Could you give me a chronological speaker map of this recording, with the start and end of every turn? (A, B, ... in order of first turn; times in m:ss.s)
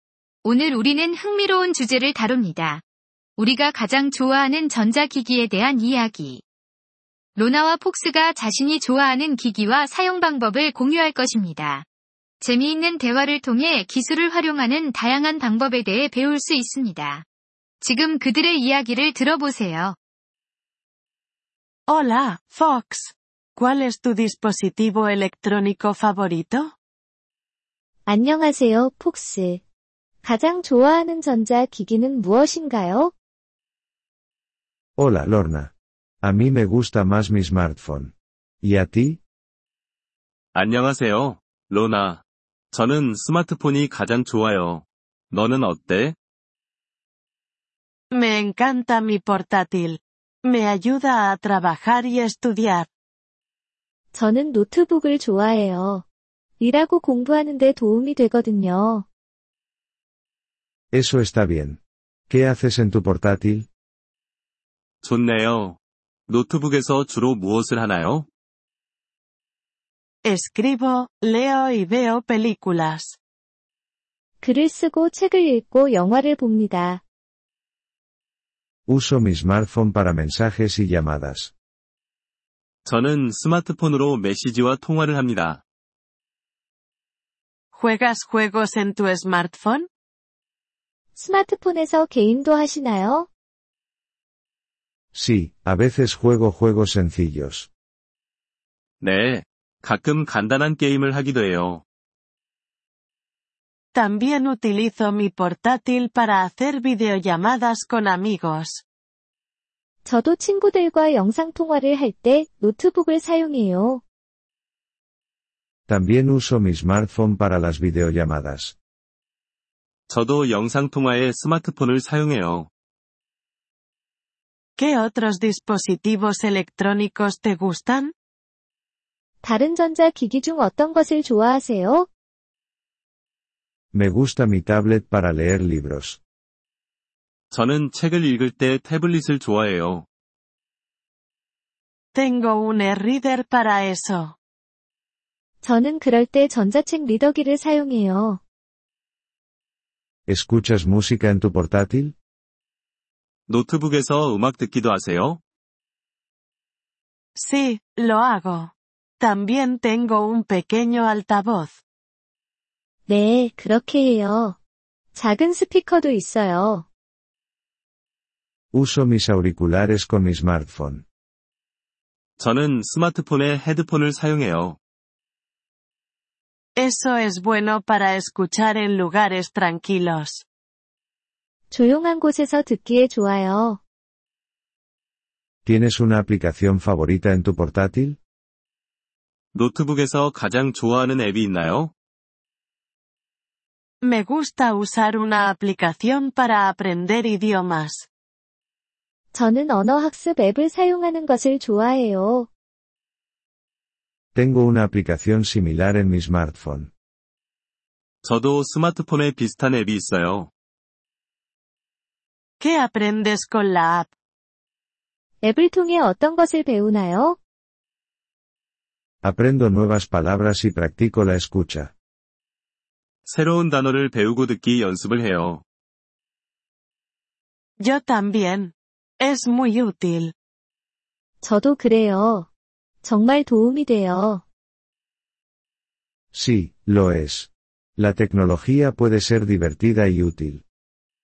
0:00.4-0:02.8 A
0:03.4-0:06.4 A
0:07.4-0:11.8 A
0:12.4-0:17.2 A
0:17.8-0:20.0 A
0:21.9-0:26.7 B
0:28.1-0:29.6 C
0:30.2-0:33.1 C
0:35.0-0:35.7 D
0:36.2-0:39.2 D
0:40.5-0:46.2 E
0:48.1-0:52.9 B
0:54.1-0:56.0 C
0:56.6-0:59.0 C
1:00.9-1:03.7 D
1:05.0-1:08.2 E
1:10.2-1:13.2 B
1:14.4-1:17.0 C
1:18.9-1:21.5 D
1:22.8-1:25.6 E
1:27.7-1:29.9 B
1:31.1-1:33.3 C
1:35.1-1:37.7 D
1:39.0-1:41.8 E
1:43.9-1:48.8 B
1:50.0-1:54.0 C
1:55.9-1:58.7 D
2:00.1-2:02.7 E
2:04.8-2:08.1 B
2:09.4-2:12.1 C
2:13.9-2:16.2 D
2:17.5-2:20.0 E
2:22.1-2:24.3 B
2:25.6-2:28.4 C
2:30.3-2:32.1 D
2:33.5-2:35.4 E
2:37.4-2:41.8 B
2:43.1-2:44.6 C
2:45.1-2:46.8 C
2:48.7-2:51.0 D
2:52.4-2:54.8 E
2:56.8-3:00.4 B
3:01.7-3:03.8 C
3:05.6-3:08.2 D
3:09.5-3:11.9 E
3:14.0-3:18.1 B
3:19.3-3:22.5 C
3:24.3-3:26.9 D
3:28.2-3:30.5 E
3:32.6-3:34.1 B
3:35.4-3:37.4 C
3:39.2-3:41.9 D
3:43.2-3:45.6 E
3:47.8-3:50.3 B
3:51.4-3:52.5 C
3:53.0-3:54.4 C
3:56.3-4:00.6 D